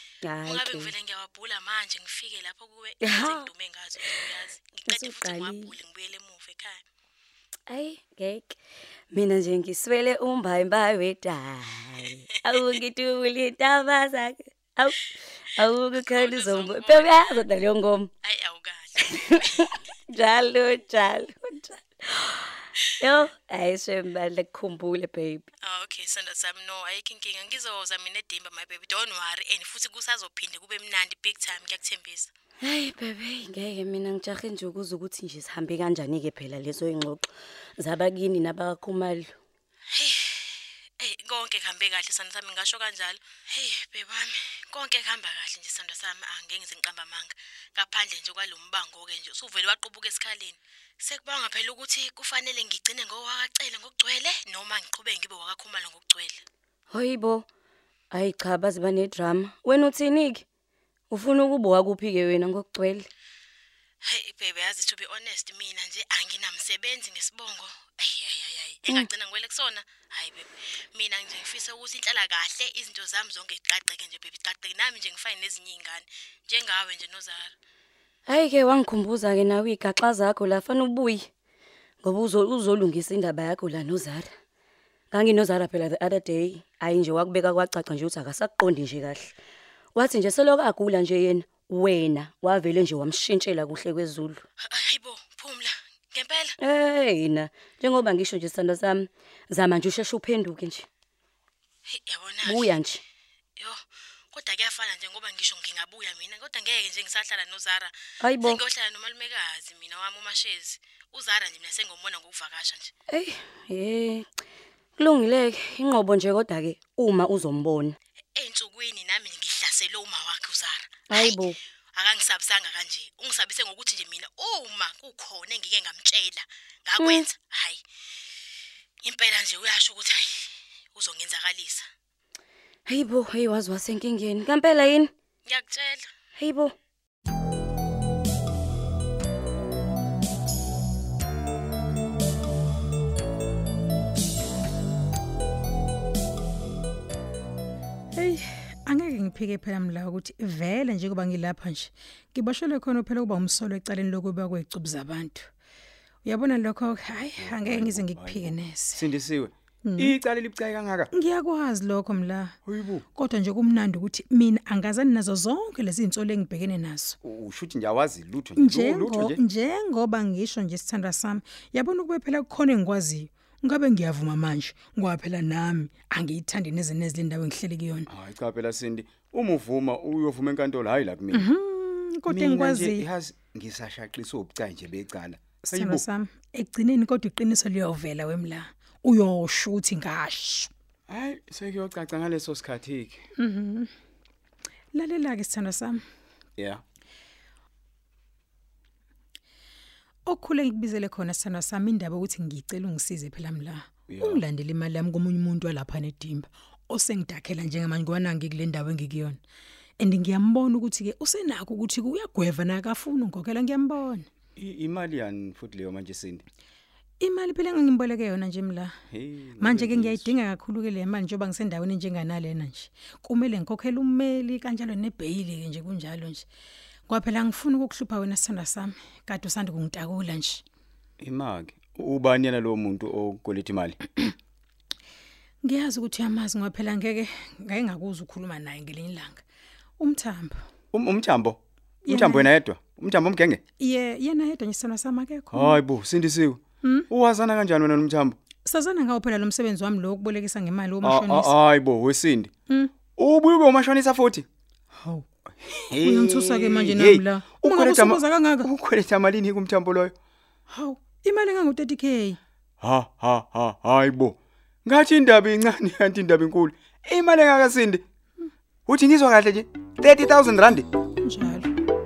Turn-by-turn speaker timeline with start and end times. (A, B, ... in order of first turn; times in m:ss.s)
0:00.2-0:00.9 A
0:00.4-0:06.8 B
0:03.0-0:03.5 A
0:04.9-0:05.7 A
0:07.7-0:08.6 A
0:09.1-0:15.0 A
0:12.4-0:12.8 B
0:15.6-0:18.1 A
0:15.6-0:17.4 B
0:18.2-0:19.6 B
0:20.1-0:22.5 A
0:23.0-0:25.5 A
0:25.6-0:32.3 B
0:32.6-0:39.3 A
0:39.9-0:56.4 B
0:56.9-0:57.4 A
0:58.1-1:00.4 A
1:01.1-1:03.1 A
1:04.1-1:17.5 B
1:18.3-1:21.3 A
1:22.0-1:24.3 A
1:25.1-1:29.3 A
1:29.9-1:34.4 A
1:34.6-1:36.6 B
1:36.6-1:40.9 A
1:41.9-1:42.8 B
1:42.4-1:43.0 A
1:44.3-1:52.9 B
1:48.2-1:48.6 A
1:53.1-1:54.2 A
1:55.0-1:58.0 A
1:58.4-2:07.8 B
2:01.1-2:01.6 A
2:07.0-2:07.2 A
2:09.0-2:11.9 B
2:12.9-2:15.1 A
2:15.4-2:16.1 B
2:16.4-2:16.7 A
2:28.1-2:35.5 C
2:36.2-2:39.1 C
2:37.3-2:41.1 D
2:39.8-2:40.2 C
2:41.1-2:42.6 C
2:42.6-2:43.0 D
2:43.1-2:47.2 C
2:47.2-2:49.4 D
2:48.6-2:58.1 C
2:58.1-3:01.5 D
3:01.3-3:03.0 C
3:02.3-3:06.0 D
3:05.7-3:10.7 C
3:11.1-3:13.2 D
3:13.4-3:13.9 C
3:14.9-3:16.0 C
3:16.6-3:16.8 D
3:20.3-3:29.4 C
3:24.1-3:24.4 D
3:30.0-3:34.2 C
3:34.6-3:36.4 D
3:37.2-3:38.9 C
3:39.1-3:40.3 D
3:39.6-3:46.4 C
3:47.1-3:50.6 C
3:51.2-3:54.0 D
3:55.6-3:59.4 C
4:00.0-4:00.6 C
4:00.9-4:01.6 D
4:02.0-4:02.5 C
4:02.1-4:03.6 D
4:03.8-4:05.8 C
4:05.5-4:08.4 D
4:06.8-4:07.1 C
4:08.6-4:11.6 C
4:11.0-4:12.5 D
4:13.2-4:14.4 D
4:15.0-4:15.2 C
4:15.6-4:20.1 D
4:16.0-4:18.7 C
4:20.7-4:22.4 C
4:22.8-4:28.0 D
4:28.9-4:30.9 D
4:31.2-4:31.7 C